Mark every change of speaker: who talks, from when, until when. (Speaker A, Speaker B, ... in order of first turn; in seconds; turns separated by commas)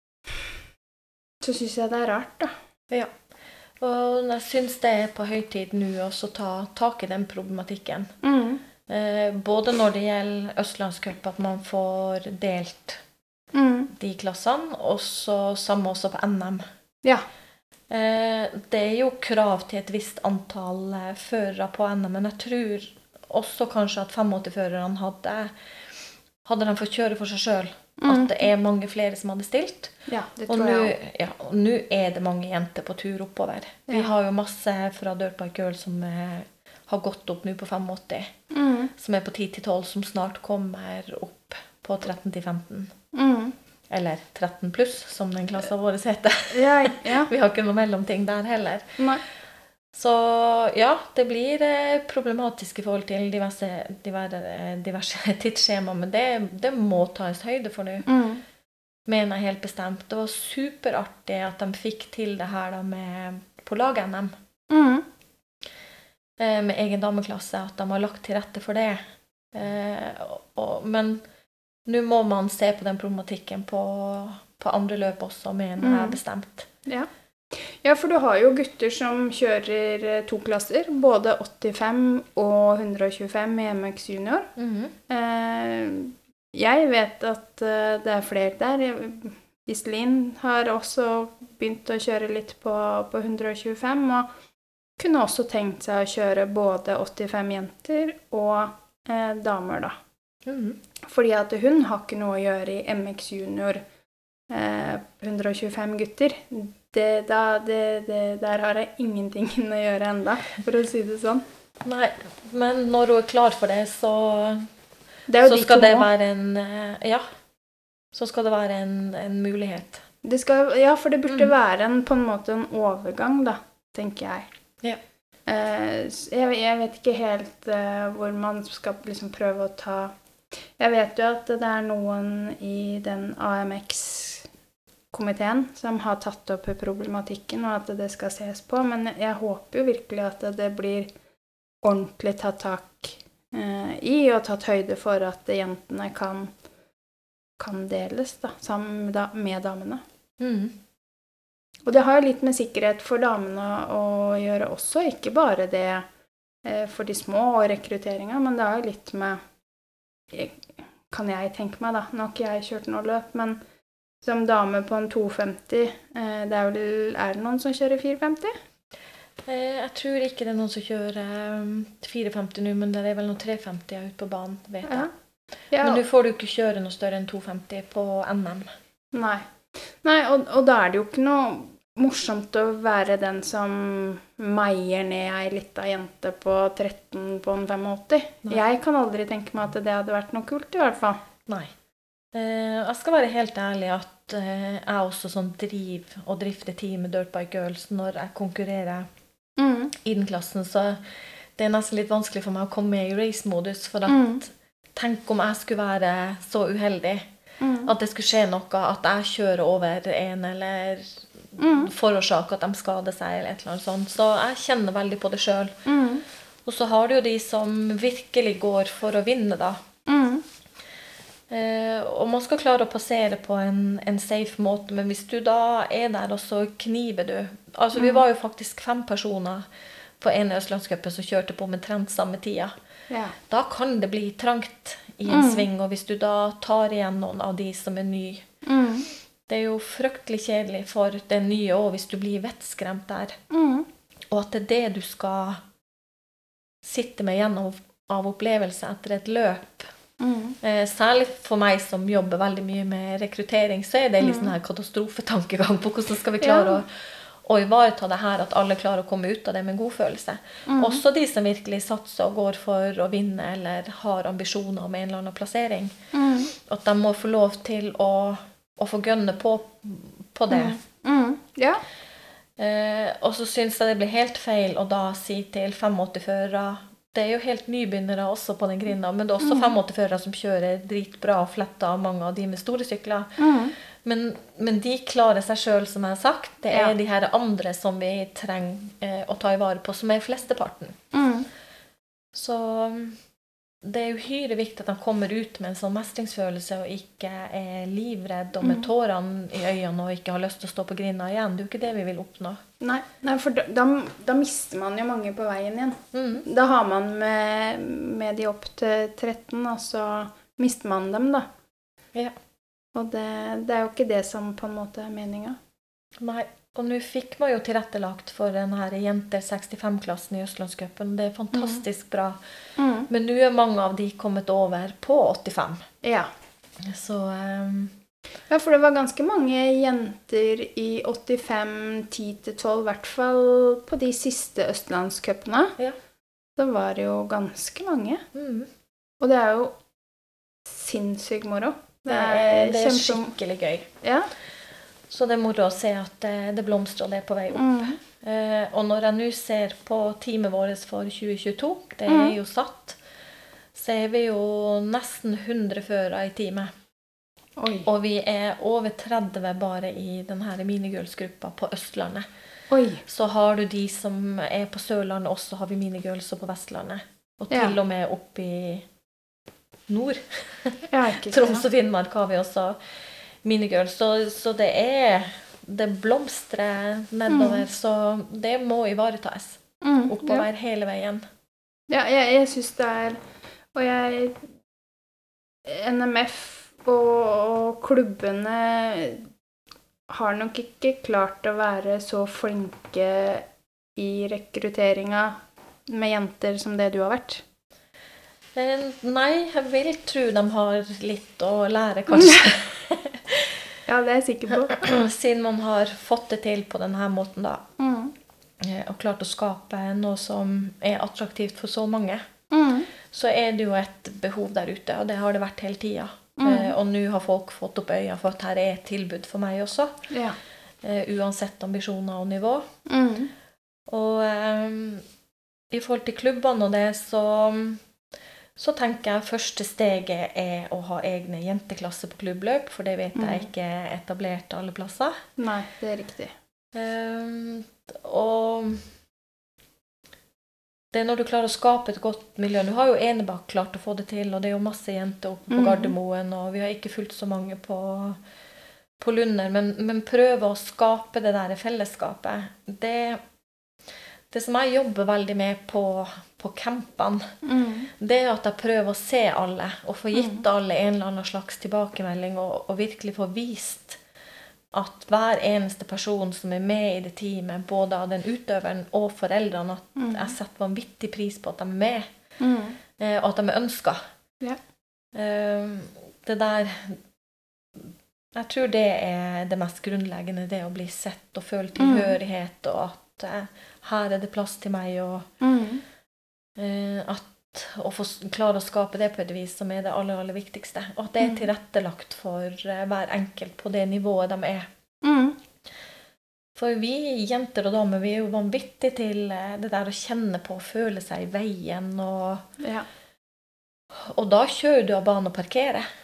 Speaker A: 1.4-2.5, Speaker B: 3.8-8.1, Speaker A: 8.2-8.6, Speaker B: 8.9-13.0, Speaker A: 13.5-13.9, Speaker B: 13.9-16.6, Speaker B: 17.9-25.5, Speaker B: 26.4-29.9, Speaker A: 28.0-28.4, Speaker A: 30.1-30.9, Speaker B: 30.5-38.3, Speaker A: 38.5-38.9, Speaker B: 39.0-42.9, Speaker A: 43.1-43.5, Speaker B: 43.9-49.0, Speaker A: 46.5-47.3, Speaker B: 49.9-58.1, Speaker A: 58.0-58.4, Speaker B: 59.1-64.3, Speaker A: 64.7-65.0, Speaker B: 66.4-69.0, Speaker B: 69.5-71.2, Speaker B: 71.9-76.7, Speaker A: 75.8-76.2, Speaker A: 76.8-84.5, Speaker B: 84.5-84.9, Speaker A: 85.1-94.3, Speaker A: 95.0-99.9, Speaker B: 100.5-100.8, Speaker A: 101.0-103.8, Speaker A: 104.5-111.4, Speaker B: 111.8-114.7, Speaker A: 115.3-116.1, Speaker B: 115.4-117.2, Speaker B: 118.1-120.0, Speaker A: 120.2-124.5, Speaker A: 125.5-130.1, Speaker A: 130.8-134.5, Speaker A: 135.1-141.1, Speaker A: 141.8-146.5, Speaker A: 147.6-150.0, Speaker B: 150.4-150.8, Speaker A: 151.9-156.1, Speaker A: 156.6-159.4, Speaker A: 160.3-163.6, Speaker A: 164.2-168.5, Speaker B: 169.4-175.1, Speaker A: 174.8-175.1, Speaker A: 175.7-176.0, Speaker B: 175.8-178.7, Speaker A: 179.1-191.2, Speaker B: 191.5-191.7, Speaker B: 192.3-199.1, Speaker A: 199.6-199.9, Speaker B: 200.0-201.0, Speaker B: 201.5-207.3, Speaker A: 204.1-204.4, Speaker A: 207.6-207.9, Speaker B: 207.8-215.8, Speaker A: 211.6-211.9, Speaker A: 215.8-216.2, Speaker B: 216.6-219.8, Speaker A: 220.1-220.4, Speaker B: 221.5-229.7, Speaker A: 227.9-228.2, Speaker B: 230.2-232.7, Speaker A: 233.1-233.3, Speaker B: 233.4-238.5, Speaker A: 235.3-235.7, Speaker A: 238.6-239.1, Speaker B: 239.5-243.4, Speaker A: 243.5-243.9, Speaker B: 244.3-245.6, Speaker B: 246.8-249.9, Speaker A: 250.2-250.6, Speaker B: 250.6-265.9, Speaker A: 254.2-254.5, Speaker A: 256.4-256.8, Speaker A: 260.7-261.0, Speaker A: 266.1-266.5, Speaker B: 266.5-270.8, Speaker A: 270.5-271.8, Speaker B: 272.6-283.4, Speaker A: 279.4-279.7, Speaker A: 283.4-283.7, Speaker B: 284.0-291.0, Speaker A: 291.1-291.5, Speaker B: 292.3-293.2, Speaker B: 293.8-302.6, Speaker A: 298.6-298.9, Speaker A: 302.8-311.5, Speaker B: 306.1-306.4, Speaker A: 312.9-315.6, Speaker B: 316.2-322.4, Speaker A: 321.5-321.8, Speaker A: 322.8-323.1, Speaker B: 323.1-325.8, Speaker A: 326.0-326.3, Speaker B: 326.8-327.9, Speaker A: 328.5-335.8, Speaker A: 336.6-338.2, Speaker B: 338.3-338.7, Speaker A: 339.2-339.8, Speaker A: 340.6-343.3, Speaker B: 342.1-343.9, Speaker A: 344.0-344.3, Speaker B: 345.1-353.0, Speaker A: 347.5-348.0, Speaker A: 352.1-352.3, Speaker B: 353.7-356.7, Speaker A: 357.6-357.9, Speaker B: 357.8-362.3, Speaker A: 362.7-363.0, Speaker B: 363.0-368.9, Speaker A: 367.5-367.8, Speaker B: 369.9-372.8, Speaker A: 370.9-371.6, Speaker B: 373.4-381.2, Speaker A: 377.3-377.6, Speaker A: 379.8-380.4, Speaker A: 381.9-383.2, Speaker A: 383.7-384.4, Speaker A: 385.6-389.3, Speaker A: 390.1-395.4, Speaker A: 395.9-397.4, Speaker B: 398.5-403.6, Speaker A: 402.1-402.4, Speaker A: 403.9-405.0, Speaker B: 404.6-407.6, Speaker A: 407.8-408.1, Speaker B: 408.6-412.2, Speaker A: 412.5-412.9, Speaker B: 413.1-419.9, Speaker A: 416.4-416.7, Speaker A: 420.1-420.4, Speaker B: 420.8-422.7, Speaker A: 422.9-423.3, Speaker B: 423.9-425.0, Speaker B: 425.7-427.8, Speaker B: 428.6-435.2, Speaker A: 433.1-433.5, Speaker A: 435.4-436.3, Speaker B: 436.7-438.9, Speaker B: 440.9-448.2, Speaker A: 445.5-445.9, Speaker B: 449.0-453.2, Speaker B: 454.3-457.3, Speaker A: 457.4-457.9, Speaker B: 458.0-464.0, Speaker A: 460.1-460.4, Speaker B: 464.7-472.1, Speaker A: 469.9-470.3, Speaker A: 472.4-472.8, Speaker B: 473.0-474.0, Speaker B: 475.1-477.0, Speaker B: 478.3-485.3, Speaker A: 481.8-482.1, Speaker A: 485.4-485.8, Speaker B: 486.6-494.7, Speaker A: 491.2-491.4, Speaker A: 495.0-495.4, Speaker B: 496.6-502.4, Speaker A: 502.6-502.9, Speaker B: 503.9-505.9